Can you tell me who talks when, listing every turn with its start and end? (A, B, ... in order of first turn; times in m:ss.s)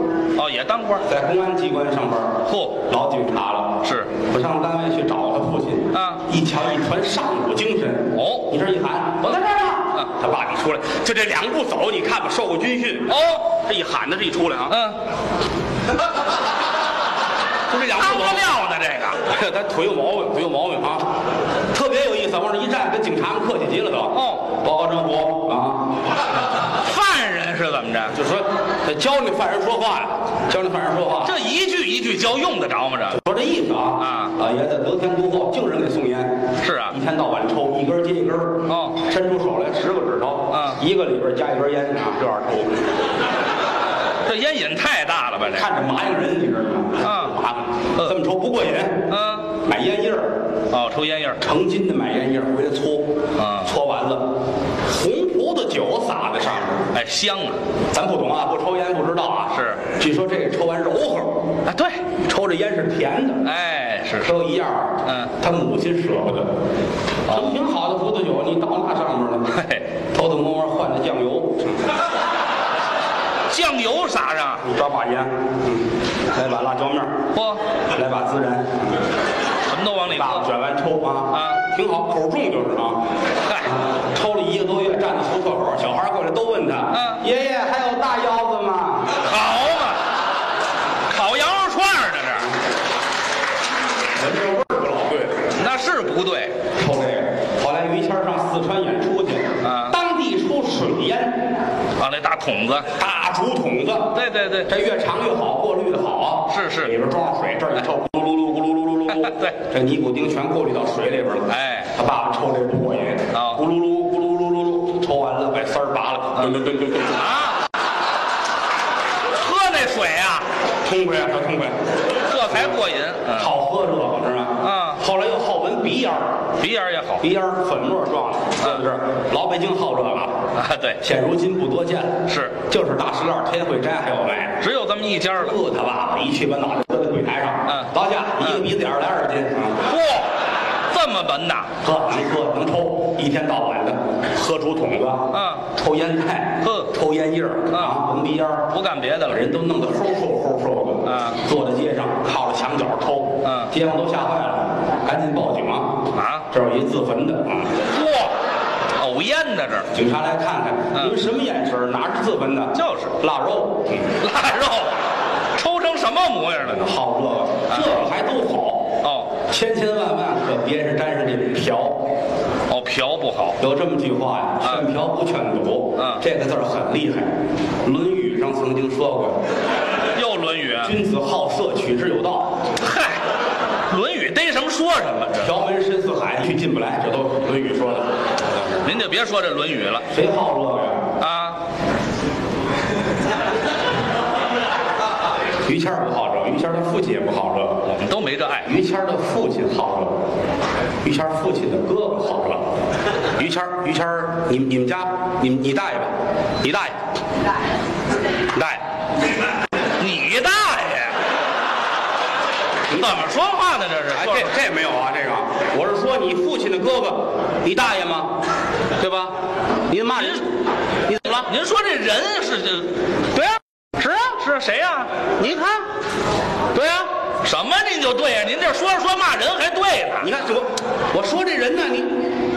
0:00.3-0:01.0 A
0:01.0-0:14.8 B
0:02.5-0:02.8 A
0:03.8-0:04.1 A
0:05.9-0:06.2 A
0:08.1-0:08.5 A
0:13.1-0:13.5 A
0:14.7-0:15.0 A
0:17.7-0:18.4 B
0:17.9-0:19.3 A
0:19.2-0:21.0 B
0:21.7-0:25.9 B
0:24.1-0:24.5 A
0:26.8-0:28.1 A
0:28.1-0:31.4 B
0:31.2-0:33.2 A
0:33.1-0:42.8 B
0:34.0-0:34.3 A
0:36.6-0:37.0 A
0:38.7-0:39.0 A
0:40.5-0:40.8 A
0:44.2-0:45.7 A
0:45.5-0:50.4 B
0:47.0-0:47.3 A
0:49.1-0:49.5 A
0:50.7-0:51.4 A
0:51.4-0:54.3 B
0:53.4-0:53.7 A
0:54.8-0:56.9 B
0:56.9-0:57.6 A
0:57.9-1:01.4 B
0:59.5-0:59.8 A
1:01.6-1:02.0 A
1:02.2-1:03.5 B
1:03.4-1:04.4 A
1:04.2-1:06.5 B
1:05.0-1:05.3 A
1:07.3-1:07.6 A
1:07.3-1:09.5 B
1:09.5-1:09.8 A
1:10.1-1:11.8 B
1:13.5-1:14.6 A
1:14.6-1:17.2 B
1:17.3-1:17.6 A
1:17.9-1:18.9 B
1:19.6-1:20.4 A
1:20.1-1:23.0 B
1:21.3-1:21.6 A
1:23.4-1:23.7 A
1:23.6-1:29.2 B
1:26.9-1:27.2 A
1:29.2-1:30.0 A
1:31.1-1:32.5 A
1:34.1-1:35.5 B
1:35.5-1:36.6 A
1:36.7-1:41.5 B
1:39.6-1:40.0 A
1:42.0-1:42.9 A
1:43.0-1:44.1 B
1:44.1-1:44.7 A
1:44.7-1:57.2 B
1:46.5-1:46.9 A
1:49.1-1:49.6 A
1:51.5-1:51.9 A
1:53.3-1:53.6 A
1:56.4-1:57.6 A
1:59.2-2:00.5 A
2:00.8-2:01.8 B
2:02.2-2:03.6 A
2:03.3-2:06.4 B
2:04.6-2:05.0 A
2:06.6-2:07.2 A
2:07.2-2:10.4 B
2:10.5-2:11.0 A
2:11.0-2:14.6 B
2:12.3-2:12.6 A
2:14.6-2:15.6 A
2:15.3-2:19.8 B
2:19.9-2:20.3 A
2:20.9-2:21.7 A
2:21.8-2:28.7 B
2:25.3-2:25.7 A
2:26.6-2:26.9 A
2:27.7-2:28.0 A
2:28.7-2:29.4 A
2:29.3-2:37.7 B
2:31.0-2:31.4 A
2:33.4-2:33.7 A
2:36.1-2:36.5 A
2:37.9-2:38.4 A
2:39.0-2:39.9 A
2:39.9-2:44.1 B
2:42.7-2:43.2 A
2:44.2-2:46.8 A
2:46.6-2:52.0 B
2:47.7-2:48.1 A
2:49.0-2:49.3 A
2:52.7-2:53.6 A
2:53.6-2:57.3 B
2:56.0-2:56.2 A
2:57.8-2:59.4 B
3:00.1-3:01.0 A
3:00.8-3:02.6 B
3:02.8-3:03.2 A
3:03.9-3:05.5 A
3:05.4-3:08.8 B
3:08.8-3:10.0 A
3:10.1-3:11.0 B
3:11.2-3:11.6 A
3:15.6-3:17.8 B
3:17.8-3:18.7 A
3:18.6-3:20.2 B
3:21.0-3:22.6 B
3:23.3-3:27.0 B
3:28.5-3:28.8 B
3:30.0-3:31.2 A
3:32.9-3:34.5 A
3:34.1-3:38.3 B
3:39.0-3:39.3 B
3:39.9-3:40.5 B
3:40.1-3:40.4 A
3:41.1-3:41.5 B
3:41.4-3:43.0 A
3:43.3-3:44.3 B
3:44.2-3:45.1 A
3:45.4-3:45.8 B
3:46.7-3:47.1 B
3:47.4-3:50.4 A
3:50.2-3:52.2 B